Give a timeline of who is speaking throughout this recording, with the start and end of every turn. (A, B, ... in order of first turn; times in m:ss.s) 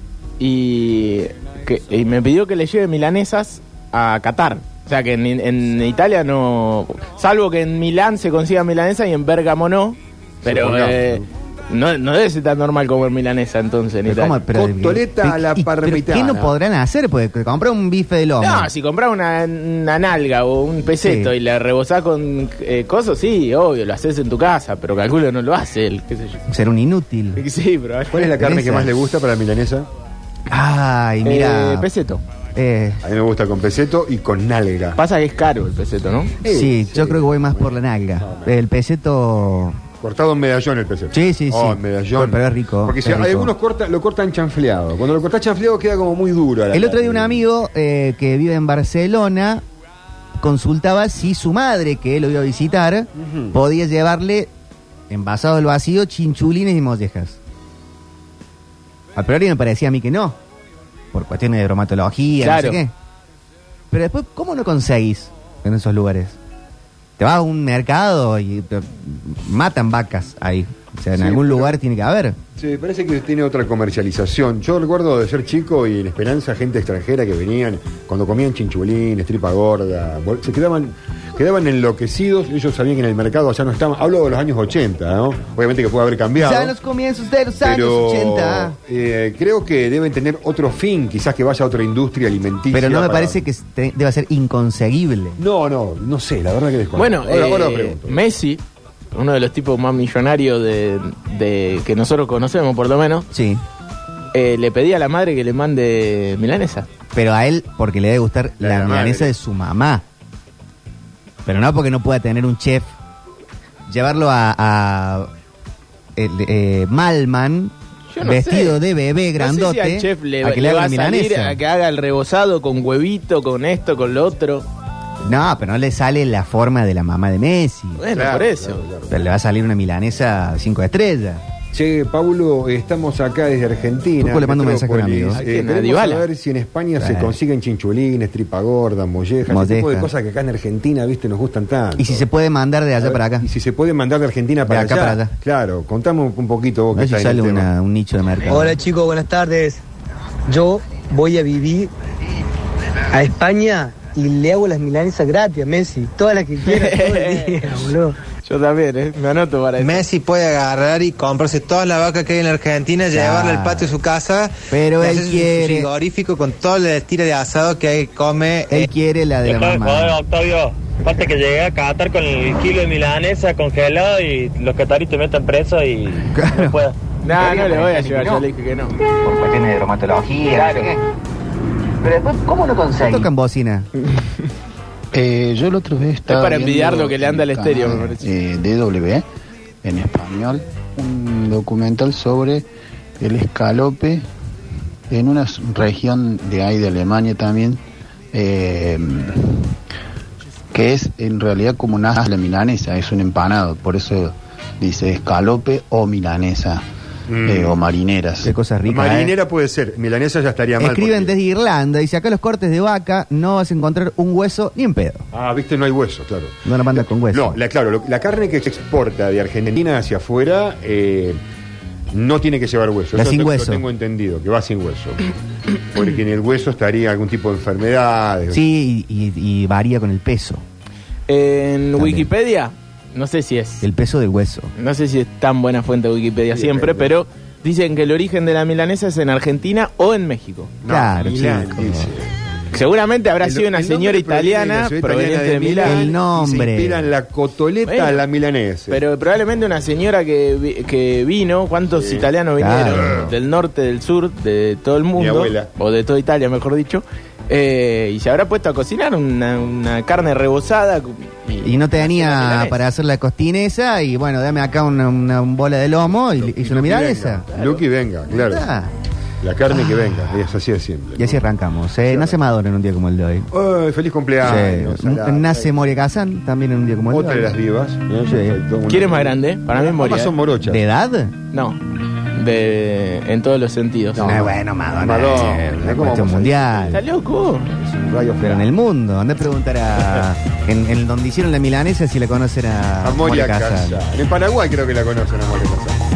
0:00.4-0:14.4 A
0:10.4-0:11.2 B
0:14.0-0:18.7 C
0:14.5-0:16.5 B
0:18.4-0:26.4 A
0:21.0-0:21.3 C
0:26.5-0:27.4 C
0:27.4-0:28.3 A
0:28.1-0:29.9 B
0:28.4-0:28.9 C
0:30.5-0:31.9 C
0:31.2-0:32.2 A
0:32.6-0:33.0 C
0:33.0-0:35.0 B
0:35.0-0:36.4 A
0:36.4-0:38.5 B
0:36.4-0:39.8 C
0:40.0-0:47.4 B
0:41.1-0:43.5 C
0:46.7-0:49.6 C
0:50.4-0:54.5 C
0:53.2-0:53.6 B
0:55.1-0:57.4 C
0:59.2-1:00.4 C
1:01.1-1:02.9 C
1:02.4-1:02.8 A
1:03.9-1:06.4 C
1:07.2-1:12.4 C
1:11.1-1:11.8 B
1:12.6-1:26.7 B
1:26.4-1:28.7 C
1:27.6-1:33.4 B
1:32.7-1:35.4 C
1:35.4-1:38.2 B
1:37.0-1:38.6 A
1:39.1-1:43.2 A
1:43.3-1:43.6 C
1:44.3-1:46.9 A
1:47.1-1:50.0 C
1:48.6-1:49.3 B
1:51.4-1:52.9 C
1:53.9-1:55.3 C
1:56.2-2:01.6 C
1:58.1-1:58.8 A
1:59.4-2:04.6 A
2:05.2-2:08.0 C
2:08.0-2:08.8 A
2:08.1-2:09.2 B
2:09.1-2:11.4 C
2:11.7-2:22.2 B
2:14.2-2:15.4 C
2:15.3-2:16.2 A
2:17.0-2:17.4 C
2:19.5-2:20.1 C
2:22.0-2:23.5 C
2:23.0-2:27.7 B
2:24.7-2:25.3 C
2:26.9-2:28.8 C
2:28.5-2:29.8 D
2:30.5-2:31.9 D
2:33.1-2:38.2 D
2:36.6-2:37.6 A
2:38.4-2:40.0 A
2:39.8-2:48.9 E
2:43.1-2:44.0 C
2:44.7-2:45.9 C
2:48.7-2:50.2 C
2:49.4-2:57.0 F
2:56.3-2:58.4 C
2:57.2-2:59.0 A
2:59.1-3:01.0 C
3:02.0-3:03.9 C
3:05.1-3:09.2 G
3:06.3-3:08.2 A
3:09.8-3:12.6 G
3:13.2-3:14.2 G
3:15.1-3:17.8 G
3:18.3-3:19.8 G
3:20.7-3:26.8 G
3:27.3-3:27.7 B
3:27.4-3:28.5 G
3:28.4-3:29.3 C
3:28.9-3:31.3 B
3:30.8-3:35.2 C
3:35.3-3:41.4 B
3:36.6-3:37.6 C
3:42.1-3:45.3 B
3:43.1-3:43.8 C
3:45.9-3:48.6 B
3:48.5-3:50.6 C
3:51.3-3:53.8 A
3:52.0-3:52.3 C
3:53.8-3:54.7 C
3:54.8-4:00.7 A
3:56.5-3:57.1 B
4:00.8-4:02.3 B
4:00.9-4:02.1 C
4:02.7-4:06.1 A
4:03.4-4:09.0 B
4:05.8-4:07.1 C
4:07.8-4:08.2 A
4:08.9-4:22.8 A
4:11.9-4:12.3 B
4:12.6-4:13.3 C
4:12.9-4:13.3 B
4:15.2-4:15.7 B
4:21.6-4:27.4 C
4:26.1-4:28.7 B
4:27.5-4:27.8 A
4:28.3-4:28.9 C
4:29.4-4:31.4 B
4:29.7-4:30.4 C
4:31.2-4:33.5 C
4:32.0-4:32.4 B
4:33.5-4:35.7 B
4:34.4-4:37.5 C
4:37.1-4:40.8 B
4:38.2-4:38.6 C
4:38.9-4:40.3 A
4:40.6-4:41.3 C
4:41.5-4:41.8 A
4:42.3-4:44.4 A
4:44.1-4:47.0 B
4:44.2-4:47.0 C
4:46.9-4:47.7 A
4:47.7-4:48.7 B
4:48.4-4:54.0 C
4:53.0-4:56.0 B